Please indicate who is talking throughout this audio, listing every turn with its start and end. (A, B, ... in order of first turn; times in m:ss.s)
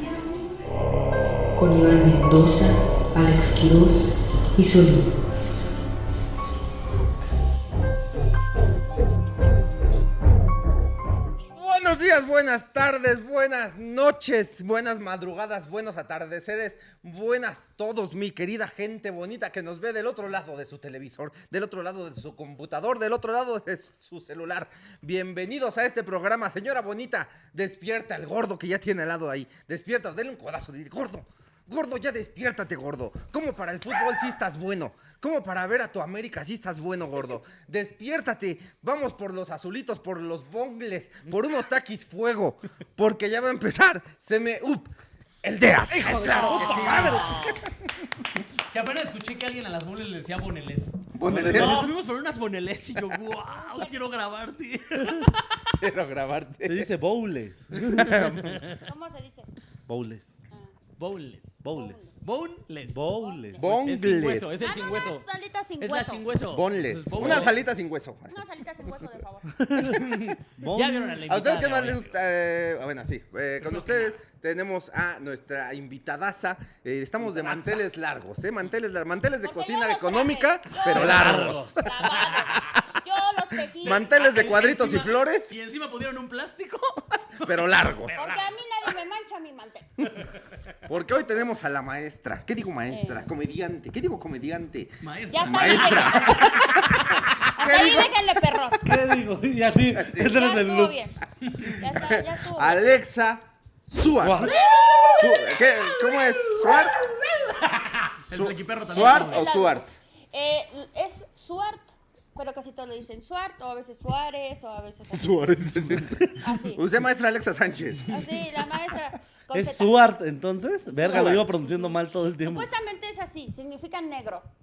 0:01.5-0:05.1 A
0:11.5-0:44.9 B
0:45.4-0:47.7 B
0:46.0-0:47.6 C
0:46.4-0:47.2 D
0:48.7-0:55.7 C
0:51.1-0:51.9 B
0:51.2-0:51.9 D
0:53.5-0:53.9 E
0:55.8-0:56.9 B
0:56.6-0:58.5 D
0:57.8-0:58.7 C
0:58.0-0:58.6 B
0:58.7-0:59.5 E
0:59.9-1:00.3 D
1:01.0-1:01.6 C
1:01.6-1:02.0 D
1:01.7-1:02.2 E
1:02.2-1:03.0 C
1:02.9-1:03.7 D
1:03.2-1:03.6 E
1:03.6-1:05.2 C
1:03.6-1:04.5 B
1:04.6-1:06.2 E
1:05.8-1:07.6 C
1:06.5-1:08.4 B
1:08.3-1:09.5 E
1:09.7-1:10.0 D
1:09.7-1:10.2 B
1:09.8-1:12.1 C
1:10.6-1:11.2 D
1:11.3-1:21.9 B
1:13.6-1:14.2 C
1:19.4-1:24.1 E
1:20.9-1:21.8 D
1:20.9-1:22.7 C
1:23.8-1:25.5 B
1:23.8-1:27.0 C
1:27.4-1:28.2 B
1:28.0-1:28.6 C
1:28.1-1:29.9 E
1:30.9-1:38.1 B
1:32.9-1:33.2 E
1:35.0-1:36.5 C
1:35.3-1:36.9 E
1:37.4-1:39.0 E
1:38.8-1:41.0 D
1:39.9-1:40.4 B
1:40.2-1:42.8 E
1:41.7-1:44.5 B
1:44.2-1:44.5 D
1:44.5-1:49.5 C
1:44.5-1:45.3 E
1:45.2-1:47.0 B
1:48.3-1:49.9 B
1:49.0-1:55.4 E
1:55.1-1:58.4 B
1:56.4-1:56.8 E
1:58.1-2:00.0 E
1:59.5-2:02.7 D
2:00.9-2:04.5 E
2:01.1-2:01.4 B